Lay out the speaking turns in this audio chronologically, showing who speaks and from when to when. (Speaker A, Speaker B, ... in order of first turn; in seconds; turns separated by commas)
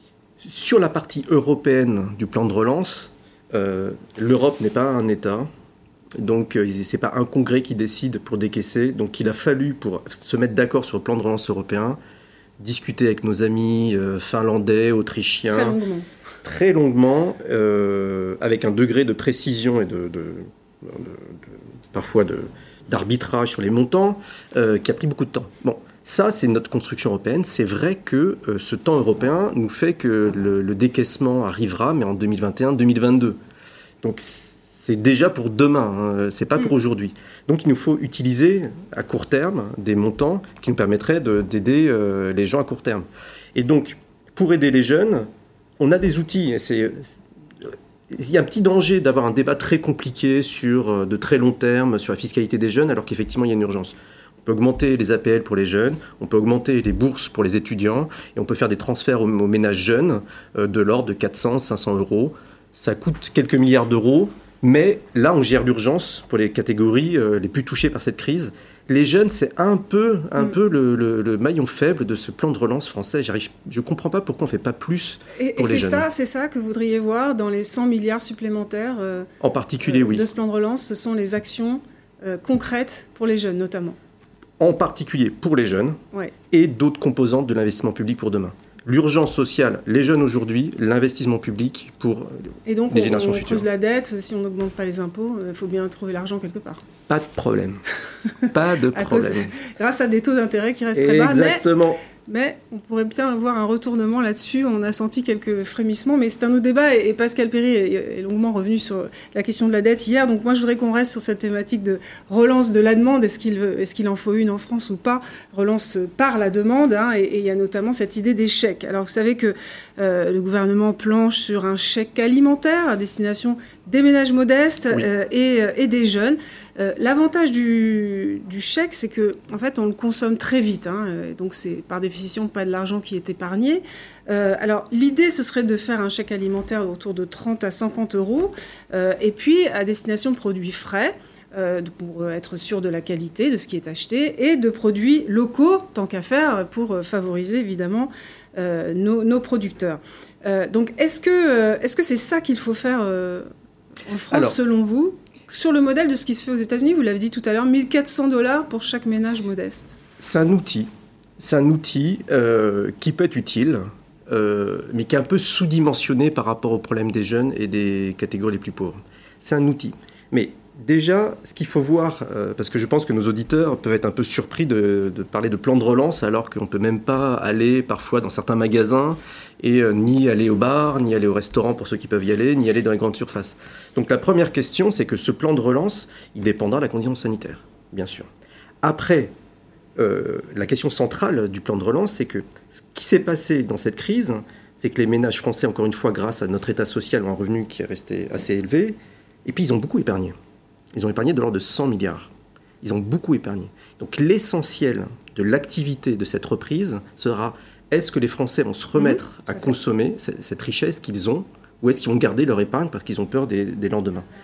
Speaker A: 0.4-5.5, Speaker A: 6.2-12.0, Speaker A: 12.6-15.8, Speaker B: 15.5-16.1, Speaker A: 16.4-21.4, Speaker A: 21.9-33.4, Speaker A: 34.0-45.3, Speaker A: 45.8-47.1, Speaker A: 48.1-54.0, Speaker A: 54.5-76.1, Speaker B: 75.4-79.3, Speaker A: 79.4-80.3, Speaker B: 79.8-84.0, Speaker A: 84.6-86.0, Speaker A: 86.5-93.7, Speaker B: 92.7-96.8, Speaker A: 97.1-97.8, Speaker A: 98.5-99.5, Speaker B: 98.9-101.7, Speaker A: 101.0-102.0, Speaker B: 102.2-153.5, Speaker B: 154.1-159.9, Speaker A: 154.3-154.6, Speaker A: 160.2-188.3, Speaker A: 188.8-189.3, Speaker A: 190.0-200.3, Speaker A: 200.9-202.3, Speaker A: 202.8-214.3, Speaker B: 209.0-209.2